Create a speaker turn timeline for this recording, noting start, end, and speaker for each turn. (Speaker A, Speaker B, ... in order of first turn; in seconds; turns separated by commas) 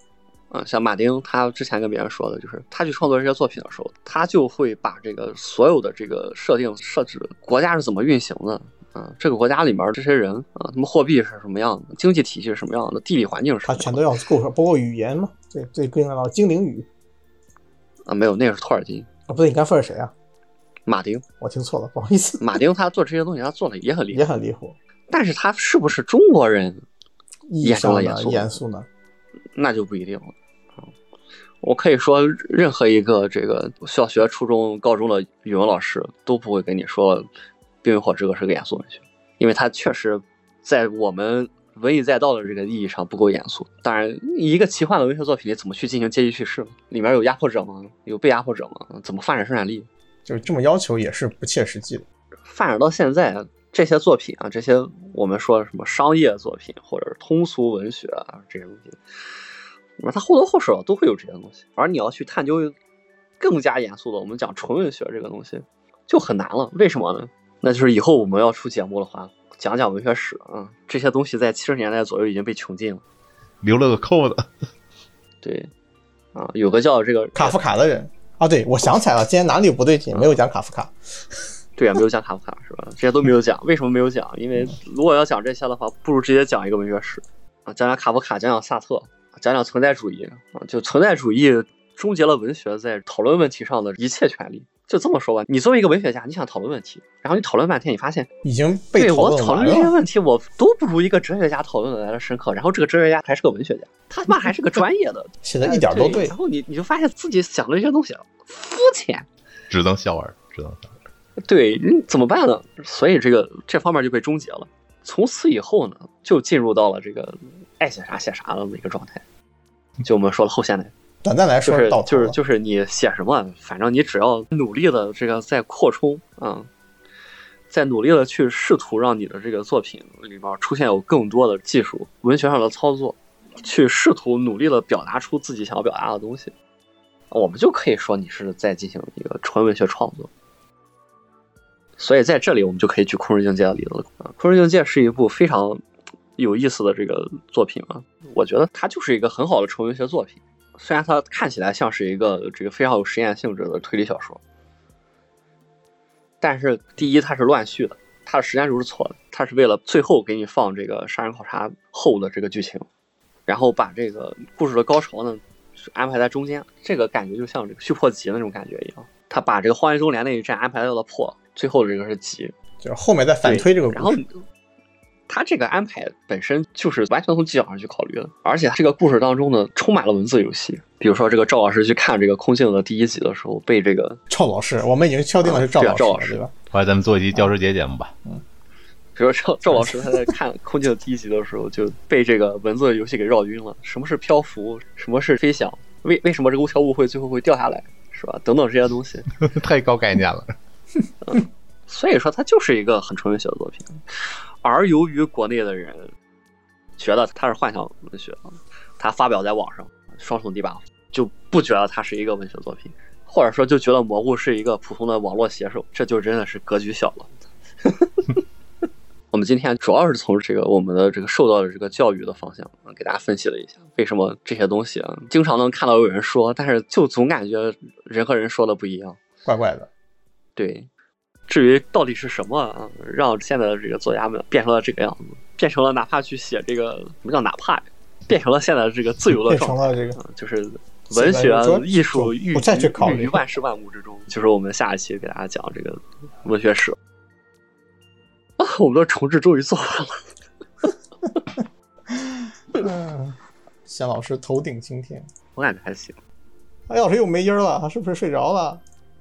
Speaker A: 0.5-14.0, Speaker B: 13.6-16.9, Speaker A: 18.1-19.1, Speaker B: 19.3-20.1, Speaker A: 20.9-21.2, Speaker B: 21.4-22.4, Speaker A: 22.4-24.2, Speaker B: 24.1-24.8, Speaker A: 25.1-26.8, Speaker B: 27.5-28.9, Speaker A: 27.6-28.6, Speaker A: 29.6-30.3, Speaker A: 31.6-37.3, Speaker A: 37.8-49.9, Speaker B: 50.2-52.0, Speaker A: 52.5-59.0, Speaker A: 60.0-62.8, Speaker A: 63.4-73.0, Speaker C: 73.6-74.5, Speaker A: 75.4-75.7, Speaker A: 76.3-77.6, Speaker B: 77.3-81.4, Speaker A: 80.1-80.4, Speaker A: 81.8-98.3, Speaker B: 98.4-99.9, Speaker A: 99.0-109.3, Speaker B: 105.4-106.3, Speaker C: 109.7-110.9, Speaker A: 111.4-119.2, Speaker A: 120.0-120.9, Speaker B: 121.2-122.3, Speaker A: 121.6-126.7, Speaker A: 127.7-136.5, Speaker A: 137.3-140.3, Speaker A: 142.0-145.8, Speaker A: 146.4-154.4, Speaker A: 156.4-162.9, Speaker A: 163.5-172.5, Speaker B: 172.8-174.2, Speaker A: 173.4-174.4, Speaker A: 175.3-184.2, Speaker B: 184.3-186.5, Speaker A: 185.4-186.4, Speaker C: 186.7-188.1, Speaker A: 189.2-199.3, Speaker C: 199.3-200.6, Speaker A: 201.2-206.1, Speaker A: 207.0-218.4, Speaker A: 219.3-229.2, Speaker B: 229.4-229.9, Speaker A: 230.6-230.9, Speaker A: 231.5-247.0, Speaker B: 239.4-240.2, Speaker B: 241.1-243.4, Speaker A: 248.6-250.2, Speaker B: 252.1-255.3, Speaker A: 255.6-256.2, Speaker B: 256.9-258.8